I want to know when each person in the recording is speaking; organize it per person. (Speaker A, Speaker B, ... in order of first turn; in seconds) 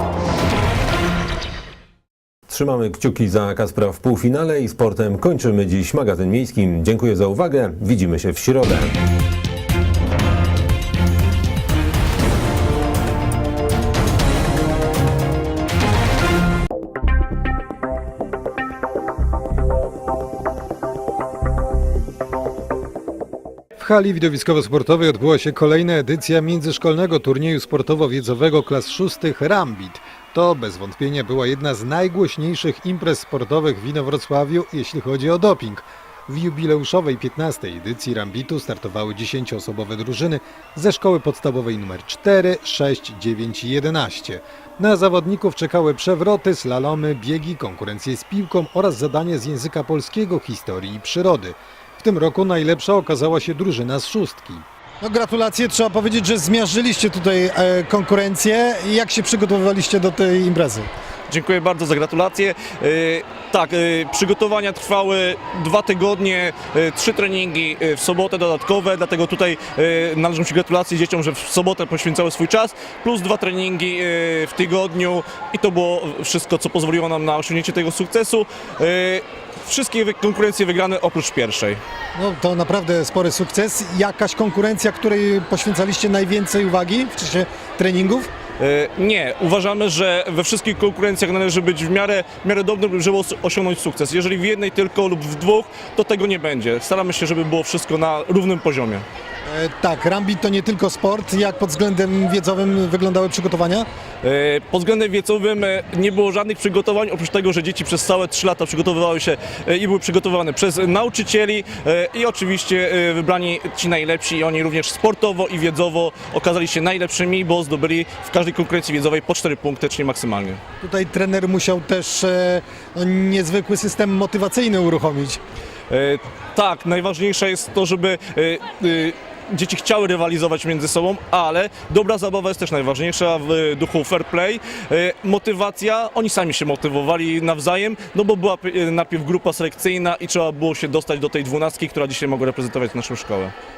Speaker A: 2.5-9.0
Speaker B: 23.8-54.6
Speaker C: 55.0-60.9, 82.2-88.3, 99.5-103.8, 120.8-125.4
Speaker D: 61.3-81.8, 88.6-99.0, 104.2-120.6, 125.9-143.5